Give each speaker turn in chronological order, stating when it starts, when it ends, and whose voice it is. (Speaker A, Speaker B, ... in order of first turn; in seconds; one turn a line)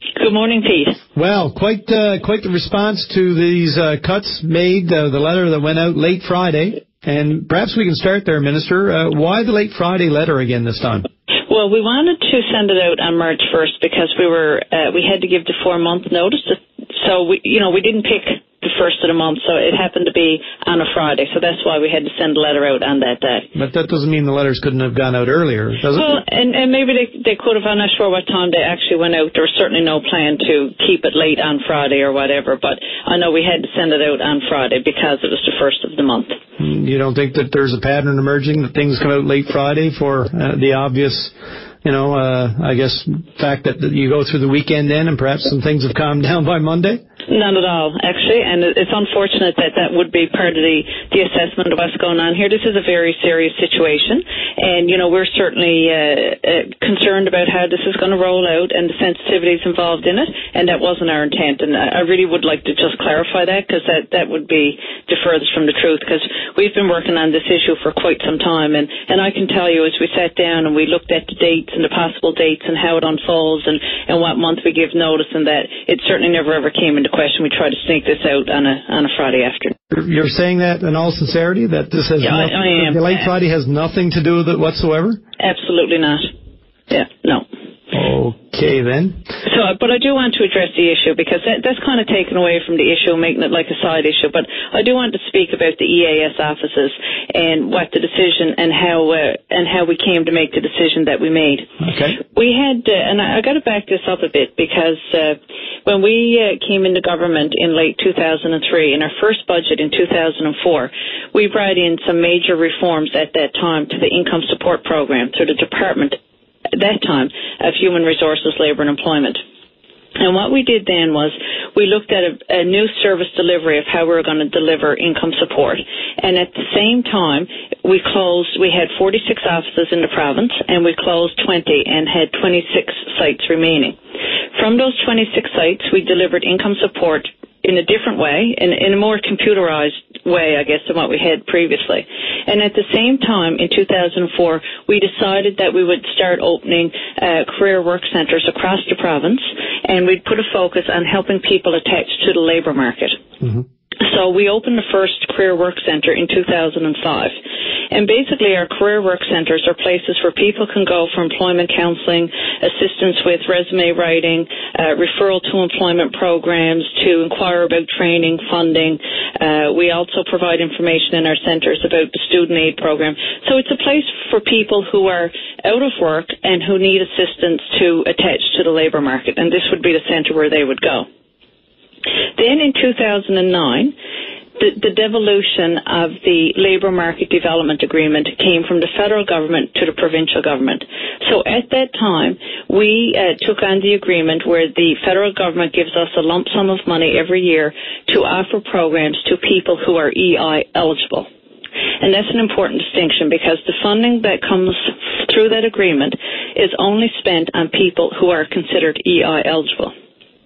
Speaker A: 0.2-1.0
Speaker B: 1.1-11.1
Speaker A: 11.5-23.5
Speaker B: 23.5-26.2
Speaker A: 25.9-36.4
Speaker B: 36.6-47.0
Speaker A: 47.3-79.7
Speaker B: 79.9-85.2
Speaker A: 82.2-83.3
Speaker A: 85.4-86.3
Speaker A: 86.9-87.4
Speaker B: 87.9-89.2
Speaker A: 89.5-101.7
Speaker B: 101.8-102.2
Speaker A: 102.2-116.2
Speaker A: 116.7-119.4
Speaker A: 120.2-134.0
Speaker A: 134.5-153.2
Speaker A: 154.0-157.3
Speaker A: 157.9-181.1
Speaker A: 182.3-183.9
Speaker A: 184.6-201.3
Speaker A: 202.0-209.9